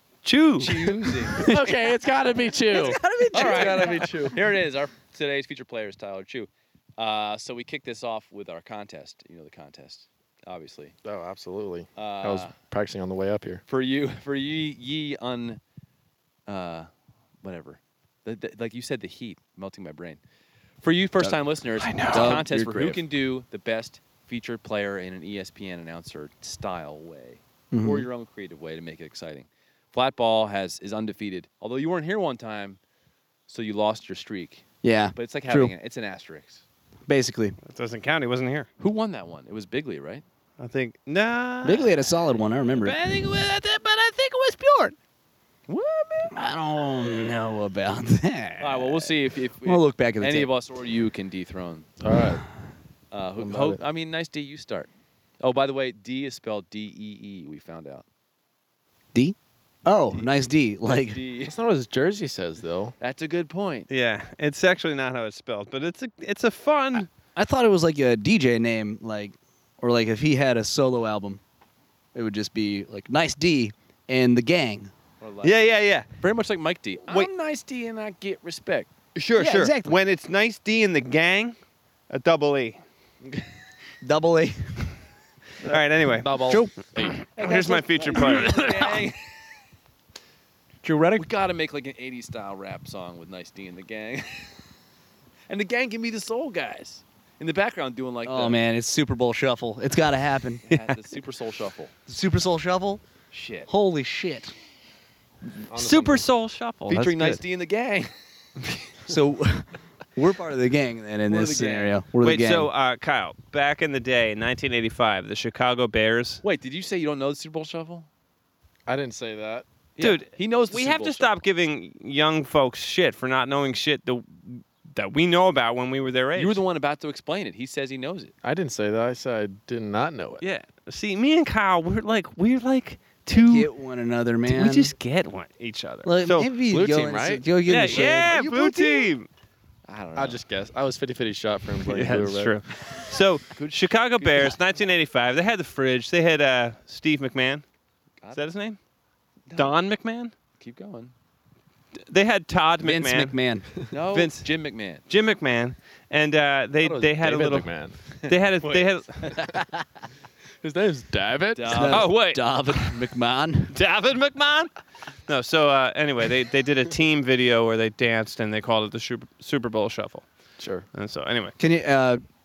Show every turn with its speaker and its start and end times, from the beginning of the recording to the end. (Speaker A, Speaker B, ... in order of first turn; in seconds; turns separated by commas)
Speaker A: 0.2-0.9, Speaker B: 0.6-1.5, Speaker C: 1.0-4.4, Speaker D: 2.7-4.3, Speaker B: 3.3-10.9, Speaker C: 11.0-13.6, Speaker B: 12.0-12.5, Speaker B: 13.7-15.6, Speaker B: 16.5-16.9, Speaker B: 17.4-20.2, Speaker B: 20.8-32.8, Speaker A: 21.8-22.3, Speaker D: 22.0-23.0, Speaker D: 27.7-28.1, Speaker B: 33.5-34.6, Speaker D: 34.8-35.7, Speaker B: 35.1-36.6, Speaker D: 37.1-37.6, Speaker A: 37.6-38.7, Speaker B: 38.8-40.2, Speaker A: 40.6-42.0, Speaker D: 41.6-44.9, Speaker B: 45.7-46.3, Speaker D: 46.3-50.5, Speaker B: 48.6-51.9, Speaker C: 52.0-52.4, Speaker B: 53.1-54.9, Speaker C: 53.4-53.8, Speaker B: 55.4-58.0, Speaker D: 59.1-61.2, Speaker B: 60.9-61.5, Speaker C: 61.4-62.9, Speaker B: 63.0-63.9, Speaker A: 63.9-67.1, Speaker D: 67.3-71.4, Speaker D: 72.1-74.9, Speaker B: 75.2-75.7, Speaker A: 75.4-76.1, Speaker B: 76.2-78.9, Speaker A: 79.2-81.5, Speaker D: 79.4-79.9, Speaker A: 82.1-82.8, Speaker D: 84.0-84.8, Speaker A: 85.6-86.6, Speaker C: 86.2-87.2, Speaker D: 86.5-86.7, Speaker A: 87.3-89.0, Speaker B: 87.4-89.3, Speaker D: 90.8-91.2, Speaker B: 91.2-94.6, Speaker B: 95.5-98.6, Speaker D: 98.2-100.7, Speaker B: 100.6-101.9, Speaker D: 102.1-103.0, Speaker B: 103.3-103.7, Speaker D: 103.7-104.5, Speaker C: 105.7-106.2, Speaker A: 105.7-107.4, Speaker B: 106.9-108.1, Speaker D: 109.0-112.7, Speaker B: 111.3-112.0, Speaker A: 112.2-116.4, Speaker B: 116.4-118.1, Speaker C: 118.9-119.7, Speaker B: 120.0-121.3, Speaker A: 120.0-126.6, Speaker B: 126.3-128.3, Speaker C: 128.4-130.4, Speaker A: 130.4-133.7, Speaker D: 133.3-134.9, Speaker A: 134.5-136.5, Speaker D: 136.0-138.8, Speaker C: 136.7-137.4, Speaker A: 137.6-139.3, Speaker B: 137.9-139.1, Speaker B: 139.8-140.4, Speaker C: 140.1-142.6, Speaker A: 141.8-147.6, Speaker B: 143.5-144.6, Speaker A: 148.3-148.8, Speaker B: 149.5-149.8, Speaker A: 149.5-150.3, Speaker B: 150.6-151.1, Speaker A: 151.9-153.3, Speaker D: 152.8-153.7, Speaker B: 153.9-155.0, Speaker A: 154.1-154.5, Speaker A: 155.1-157.7, Speaker C: 156.8-158.0, Speaker B: 158.2-159.6, Speaker A: 158.3-159.4, Speaker C: 160.6-161.9, Speaker B: 161.5-162.2, Speaker D: 161.7-163.7, Speaker A: 161.8-162.4, Speaker A: 163.7-164.7, Speaker A: 165.3-170.2, Speaker C: 170.6-170.8, Speaker A: 170.9-171.6, Speaker D: 171.6-172.2